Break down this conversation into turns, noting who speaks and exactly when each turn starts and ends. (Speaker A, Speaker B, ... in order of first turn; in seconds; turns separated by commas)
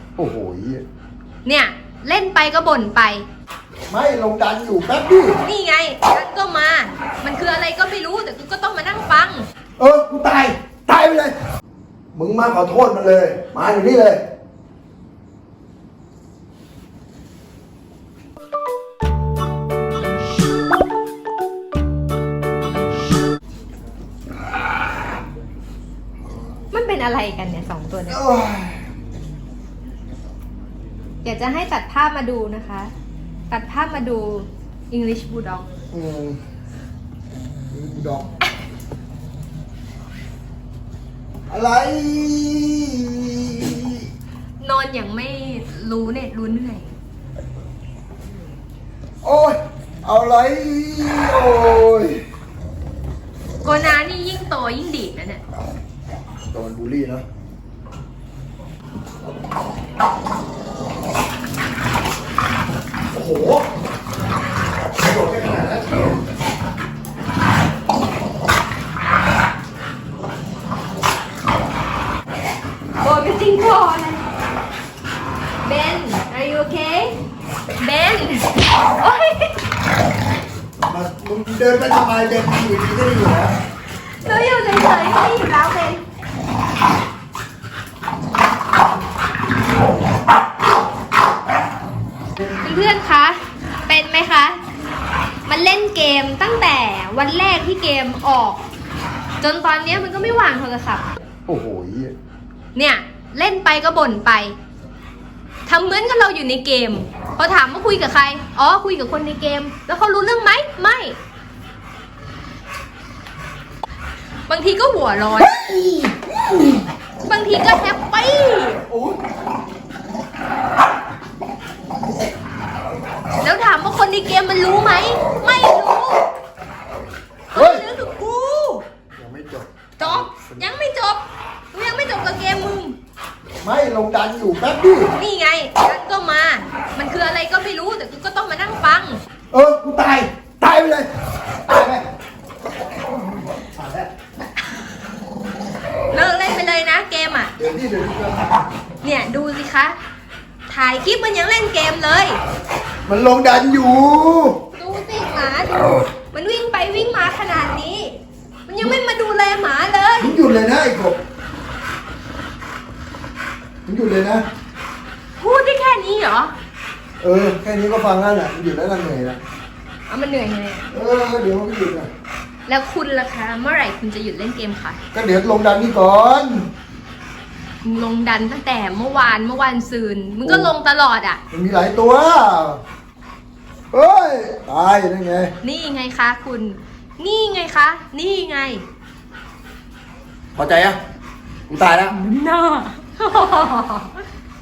Speaker A: 0.2-0.8, Speaker B: 1.4-3.2, Speaker A: 3.9-5.4, Speaker B: 5.4-9.5, Speaker A: 9.8-11.3, Speaker A: 12.1-14.2, Speaker B: 26.7-28.2, Speaker A: 28.1-28.8, Speaker B: 31.2-32.9, Speaker B: 33.5-35.7, Speaker A: 35.9-36.4, Speaker A: 37.7-38.3, Speaker A: 41.5-44.0, Speaker B: 44.6-46.9, Speaker A: 49.2-52.2, Speaker B: 53.6-55.4, Speaker A: 56.5-57.2, Speaker A: 63.1-63.6, Speaker A: 65.0-65.9, Speaker B: 73.0-74.2, Speaker B: 75.7-77.2, Speaker B: 77.8-79.6, Speaker A: 80.9-83.5, Speaker B: 84.2-86.0, Speaker B: 92.6-94.6, Speaker B: 95.5-98.6, Speaker B: 99.4-101.1, Speaker A: 101.5-102.1, Speaker B: 102.8-104.5, Speaker B: 105.7-111.2, Speaker B: 114.5-115.6, Speaker B: 117.2-118.8, Speaker B: 123.4-126.2, Speaker B: 127.5-128.8, Speaker A: 127.5-127.8, Speaker A: 129.2-130.7, Speaker B: 130.0-131.2, Speaker B: 131.7-133.0, Speaker A: 133.6-135.1, Speaker B: 135.1-139.2, Speaker A: 139.5-141.1, Speaker A: 141.7-142.1, Speaker A: 143.6-144.1, Speaker B: 146.1-147.5, Speaker A: 147.6-148.6, Speaker B: 149.0-150.0, Speaker B: 150.7-152.4, Speaker A: 153.1-154.6, Speaker B: 154.8-158.1, Speaker B: 158.7-160.3, Speaker A: 160.2-161.2, Speaker A: 163.9-164.4, Speaker B: 165.4-166.5, Speaker A: 167.2-169.4, Speaker B: 170.1-170.9, Speaker A: 170.9-172.1, Speaker B: 172.7-175.0, Speaker A: 175.1-176.7, Speaker B: 177.8-181.4, Speaker A: 180.4-180.7, Speaker A: 181.5-182.8, Speaker A: 183.9-185.5, Speaker B: 185.6-188.8, Speaker A: 190.6-191.0, Speaker A: 191.7-192.2, Speaker B: 192.1-194.2